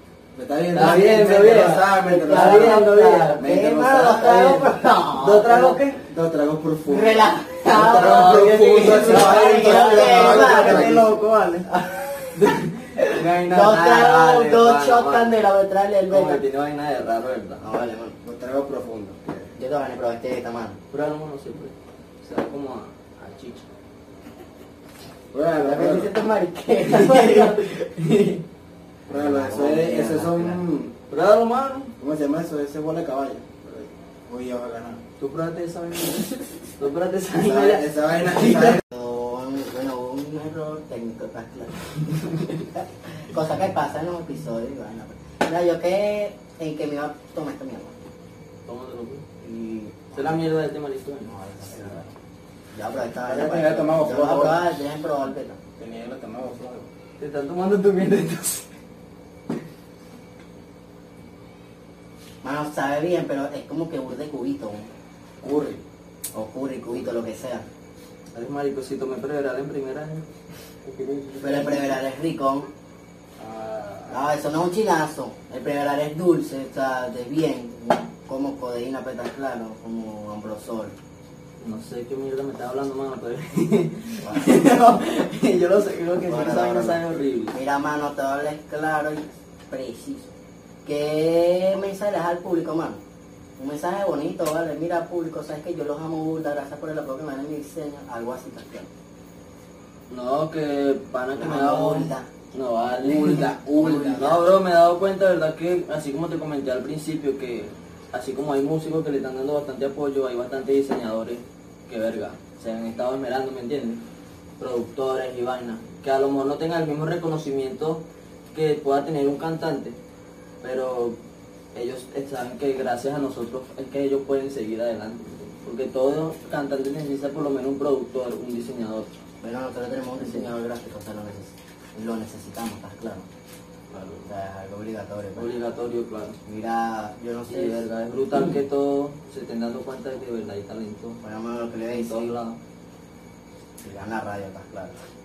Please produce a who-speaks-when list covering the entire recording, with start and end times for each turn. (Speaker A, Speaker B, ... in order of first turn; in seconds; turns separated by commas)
Speaker A: 0.3-4.6, Speaker B: 0.7-3.4, Speaker C: 2.1-5.7, Speaker B: 4.5-6.0, Speaker A: 5.2-11.1, Speaker C: 6.9-11.0, Speaker B: 7.7-11.7, Speaker C: 11.7-12.3, Speaker B: 12.3-15.3, Speaker C: 13.0-16.4, Speaker B: 16.1-17.6, Speaker C: 17.6-18.1, Speaker A: 18.2-19.5, Speaker C: 19.6-20.8, Speaker B: 20.9-23.7, Speaker A: 25.3-26.1, Speaker C: 25.6-27.7, Speaker B: 26.9-28.4, Speaker C: 29.1-30.6, Speaker A: 29.1-30.9, Speaker B: 31.1-31.9, Speaker A: 32.0-35.0, Speaker B: 35.2-38.8, Speaker A: 37.3-38.8, Speaker C: 38.9-47.9, Speaker B: 48.7-49.2, Speaker C: 49.4-50.4, Speaker B: 50.1-51.3, Speaker C: 51.2-52.1, Speaker C: 52.8-55.6, Speaker A: 53.2-54.6, Speaker A: 55.8-56.9, Speaker B: 57.2-58.7, Speaker C: 62.4-64.9, Speaker A: 65.4-65.8, Speaker C: 66.3-67.7, Speaker B: 68.3-70.3, Speaker B: 70.8-71.9, Speaker C: 71.4-72.7, Speaker A: 73.4-74.2, Speaker C: 74.1-80.9, Speaker B: 81.6-87.5, Speaker C: 84.2-84.5, Speaker C: 86.3-87.0, Speaker C: 87.5-90.3, Speaker C: 90.8-93.0, Speaker C: 93.6-98.9, Speaker B: 100.1-114.0, Speaker C: 101.4-102.3, Speaker A: 103.0-104.5, Speaker B: 114.6-118.0, Speaker B: 118.5-120.0, Speaker B: 120.6-121.2, Speaker B: 121.7-129.1, Speaker C: 129.4-133.3, Speaker B: 130.2-130.5, Speaker B: 133.9-134.3, Speaker C: 134.2-135.5, Speaker B: 135.4-136.4, Speaker C: 136.5-137.8, Speaker B: 137.5-141.2, Speaker C: 141.2-142.3, Speaker B: 141.9-142.6, Speaker C: 143.8-144.9